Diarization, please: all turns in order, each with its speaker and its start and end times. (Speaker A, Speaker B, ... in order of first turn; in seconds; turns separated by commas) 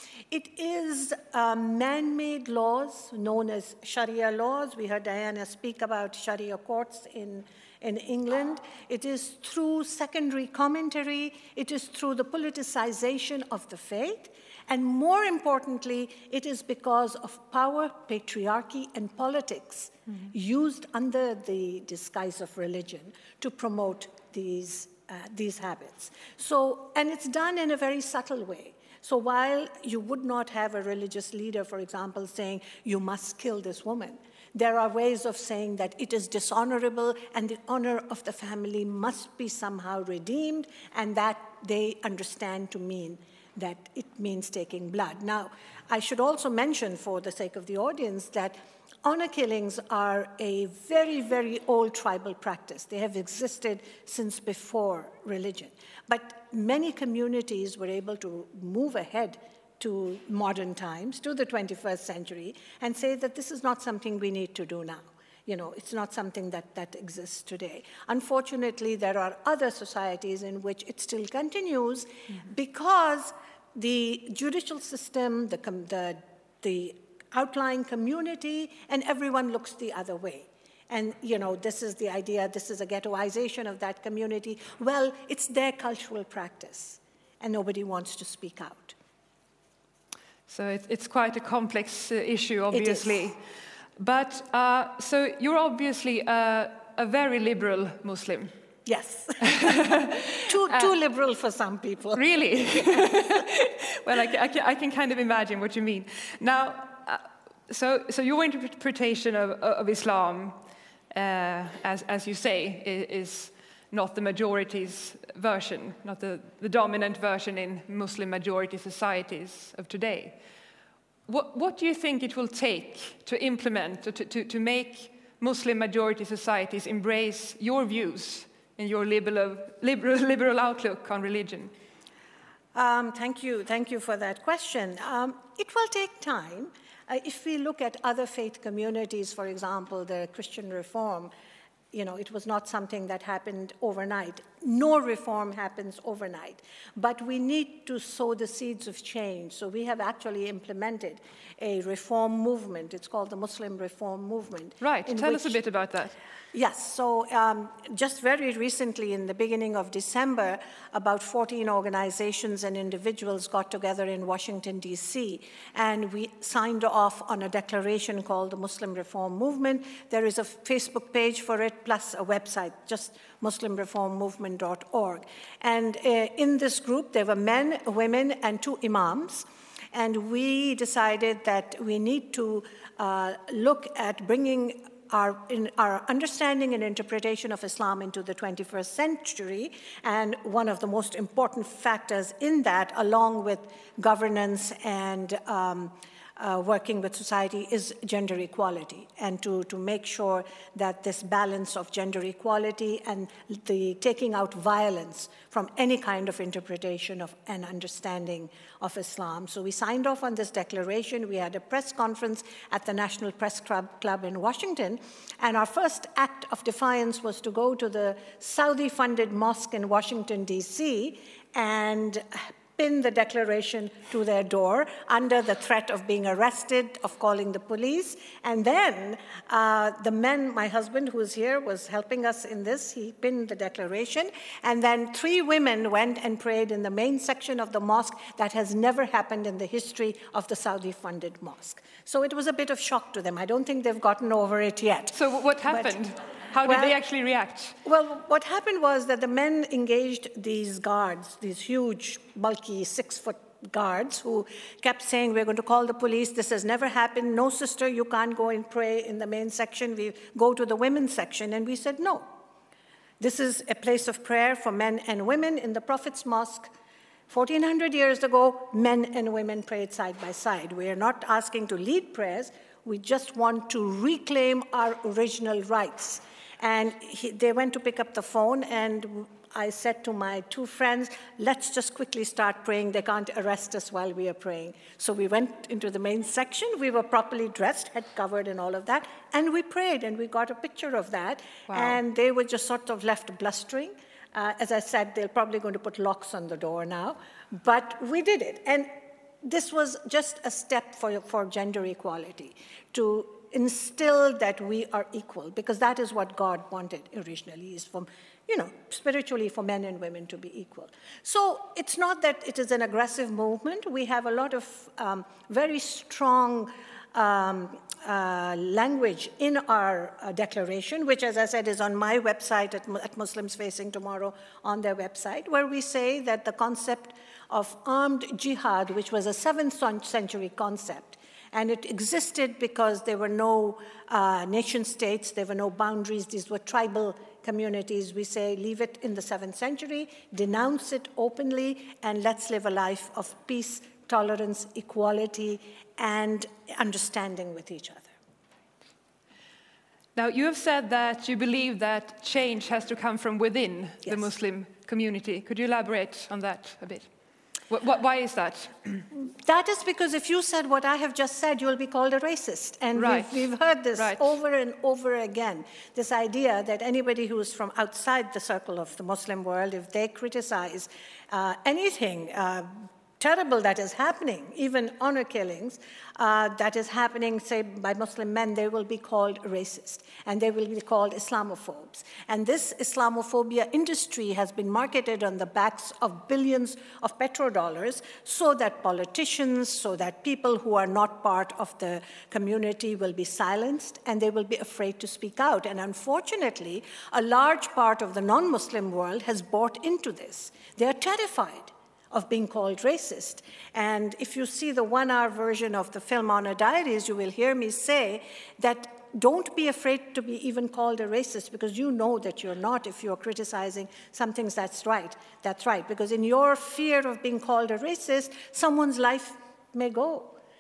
Speaker A: 0.3-89.0, Speaker B: 90.5-93.4, Speaker A: 92.7-93.3, Speaker B: 94.0-98.5, Speaker A: 98.9-102.2, Speaker B: 99.4-100.2, Speaker B: 102.1-110.6, Speaker B: 111.1-120.4, Speaker B: 121.3-131.7, Speaker A: 132.8-141.3, Speaker A: 141.9-155.6, Speaker B: 154.8-156.2, Speaker A: 156.5-245.9, Speaker B: 245.1-247.8, Speaker A: 246.6-247.0, Speaker A: 247.8-262.3, Speaker A: 263.2-266.7, Speaker A: 267.3-298.9, Speaker B: 291.7-292.0, Speaker A: 299.4-348.1, Speaker B: 350.2-357.1, Speaker B: 357.7-359.1, Speaker A: 359.1-420.4, Speaker B: 363.0-364.3